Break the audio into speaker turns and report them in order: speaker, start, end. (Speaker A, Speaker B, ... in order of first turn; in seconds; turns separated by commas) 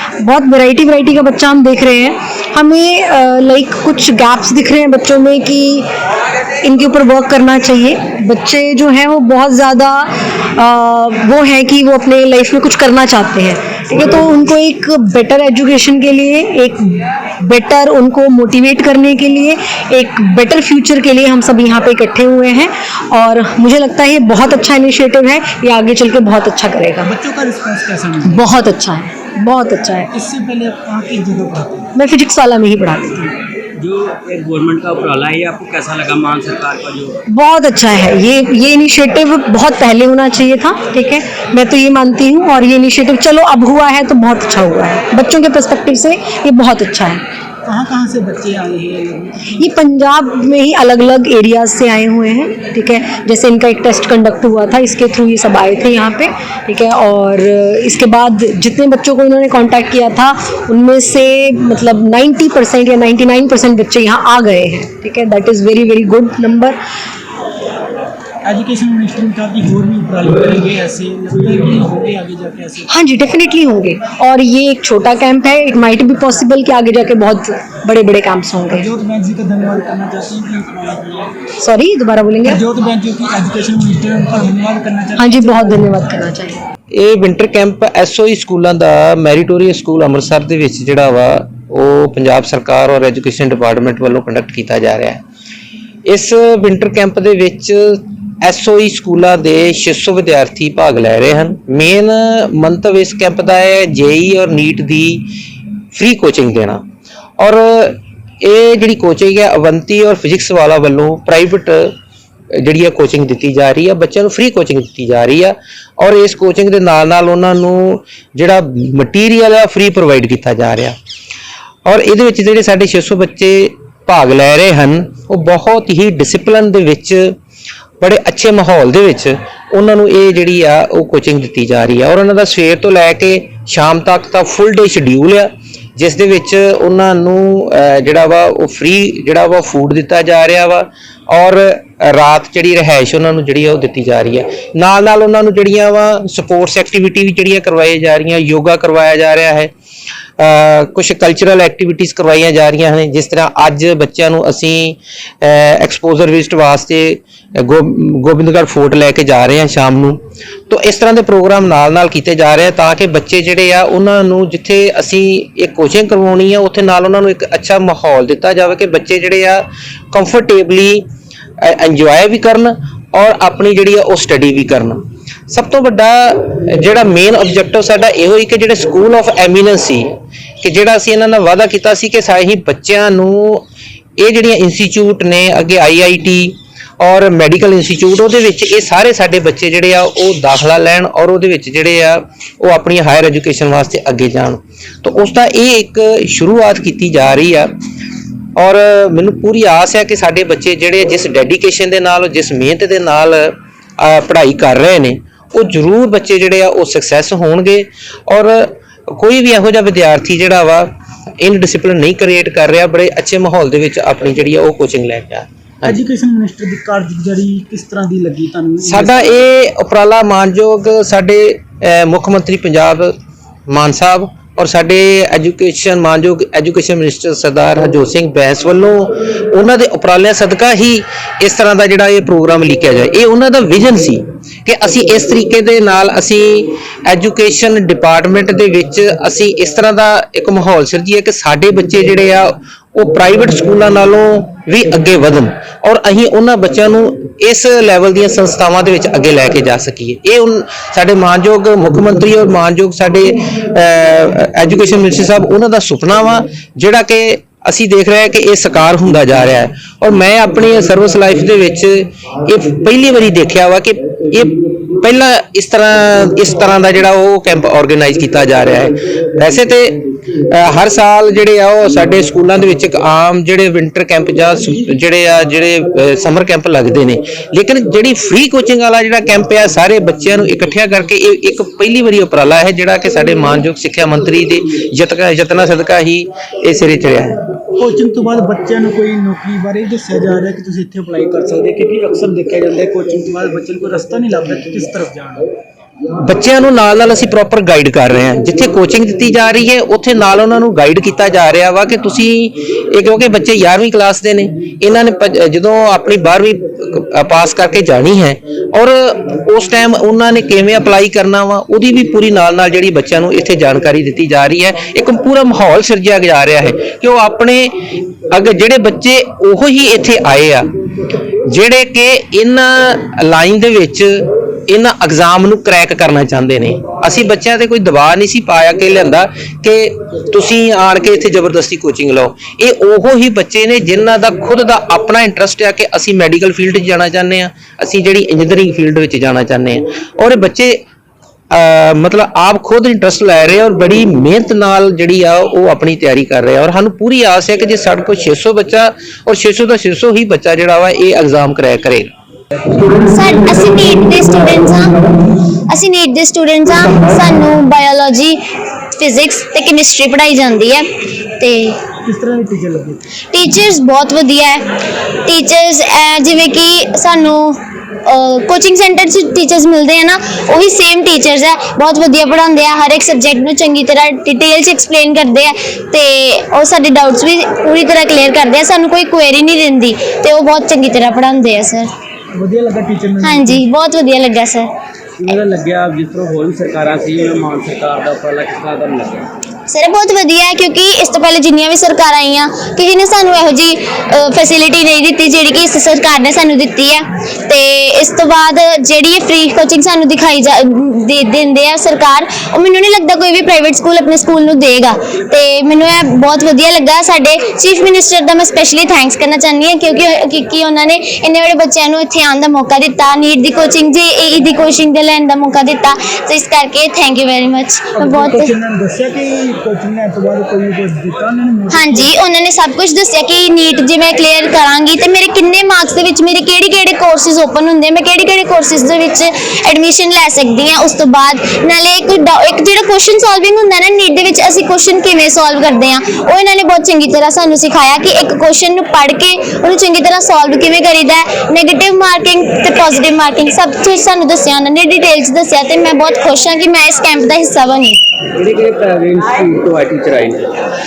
Speaker A: 0.2-5.8, Speaker A: 6.6-27.1, Speaker B: 27.0-28.4, Speaker A: 28.2-30.1, Speaker B: 30.1-31.9, Speaker A: 31.9-33.3, Speaker C: 33.8-37.2, Speaker A: 37.3-47.2, Speaker B: 47.6-49.7, Speaker A: 49.6-66.8, Speaker B: 68.4-72.9, Speaker A: 72.9-78.9, Speaker B: 78.7-81.4, Speaker A: 81.6-82.6, Speaker B: 82.4-85.8, Speaker A: 85.2-86.7, Speaker D: 86.9-95.2, Speaker D: 96.1-105.3, Speaker D: 105.9-106.8, Speaker D: 107.4-111.9, Speaker D: 112.5-121.0, Speaker D: 121.8-127.3, Speaker D: 128.0-149.7, Speaker D: 150.4-171.0, Speaker D: 171.6-183.7, Speaker D: 184.2-197.7, Speaker D: 198.6-210.9, Speaker D: 211.4-216.0, Speaker B: 215.8-219.3, Speaker D: 218.8-223.1, Speaker D: 223.7-287.4, Speaker B: 287.8-295.5, Speaker D: 296.2-317.7, Speaker D: 318.3-320.7, Speaker D: 321.4-340.8, Speaker D: 341.5-352.1, Speaker E: 352.9-355.1, Speaker E: 355.7-358.4, Speaker E: 359.0-361.8, Speaker B: 362.0-363.1, Speaker E: 363.3-364.6, Speaker E: 365.2-381.9, Speaker B: 382.3-383.6, Speaker E: 383.2-384.7, Speaker C: 385.2-389.3, Speaker E: 389.7-418.5, Speaker B: 417.9-422.1, Speaker E: 421.7-448.0, Speaker C: 448.4-450.5